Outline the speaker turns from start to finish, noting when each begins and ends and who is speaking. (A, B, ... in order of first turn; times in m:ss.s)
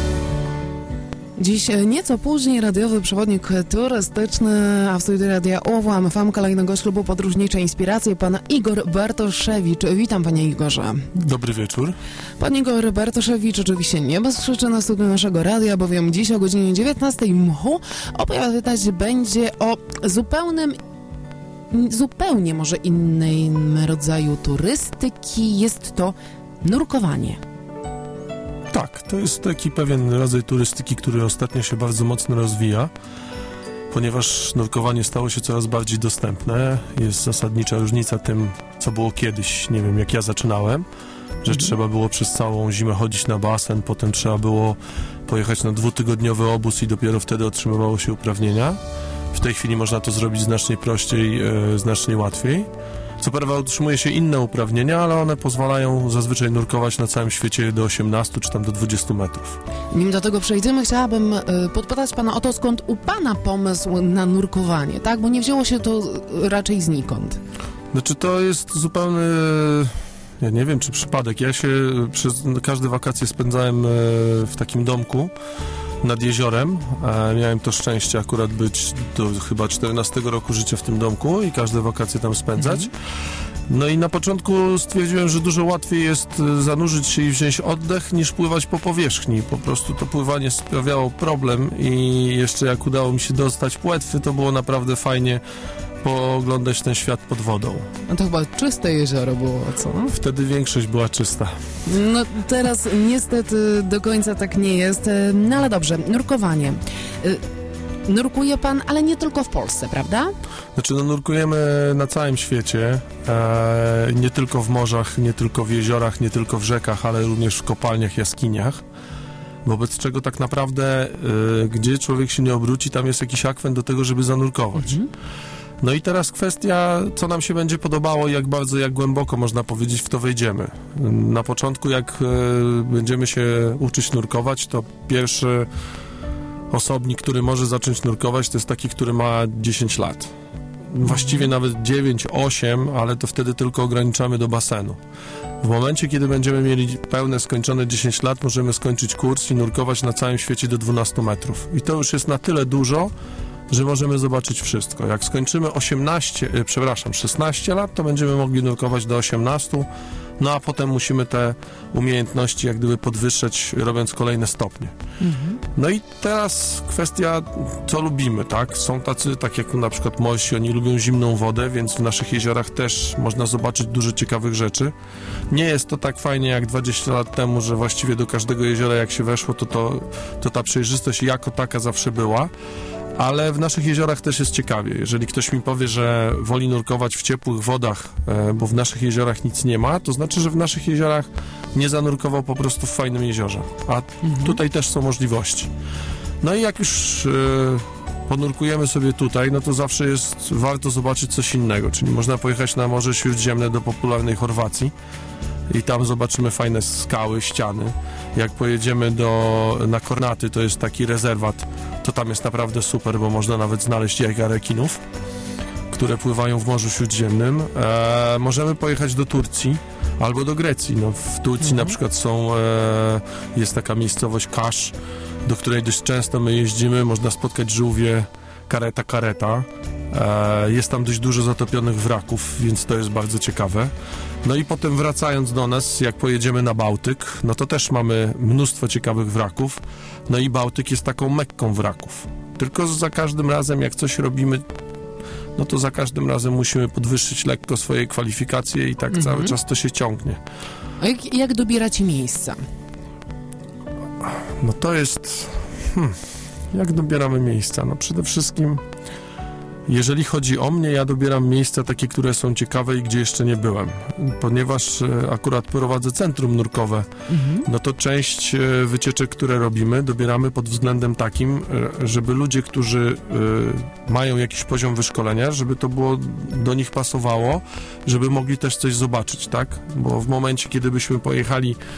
0:01.4-0:11.1 A
0:11.1-0:12.0 B
0:12.4-0:20.8 A
0:21.7-0:27.4 A
0:28.7-0:32.9 B
0:33.9-0:40.8 B
0:41.4-0:48.8 B
0:49.3-0:52.7 B
0:53.2-0:59.6 B
0:59.9-1:07.4 A
1:07.9-1:15.3 B
1:16.0-1:22.9 B
1:22.6-1:22.9 A
1:23.7-1:35.4 B
1:36.0-1:37.9 B
1:38.1-1:40.1 A
1:40.0-1:41.5 B
1:41.8-1:47.4 A
1:48.1-1:50.3 A
1:50.8-1:58.8 B
1:59.6-2:05.0 B
2:04.8-2:05.1 A
2:05.8-2:15.7 B
2:16.7-2:20.3 B
2:20.9-2:25.0 B
2:21.0-2:21.5 A
2:25.6-2:33.1 B
2:33.7-2:39.8 B
2:40.4-2:44.9 B
2:45.2-2:45.6 A
2:45.7-2:54.9 B
2:55.5-3:02.5 B
3:03.2-3:15.7 B
3:14.2-3:14.6 A
3:16.4-3:24.9 B
3:25.7-3:35.0 B
3:35.9-3:53.9 B
3:41.6-3:41.9 A
3:54.4-4:04.6 B
4:05.6-4:10.4 B
4:09.1-4:09.6 A
4:11.0-4:12.6 A
4:14.6-4:16.2 B
4:16.7-4:18.8 B
4:19.9-4:27.1 B
4:27.3-4:27.7 A
4:27.6-4:41.8 B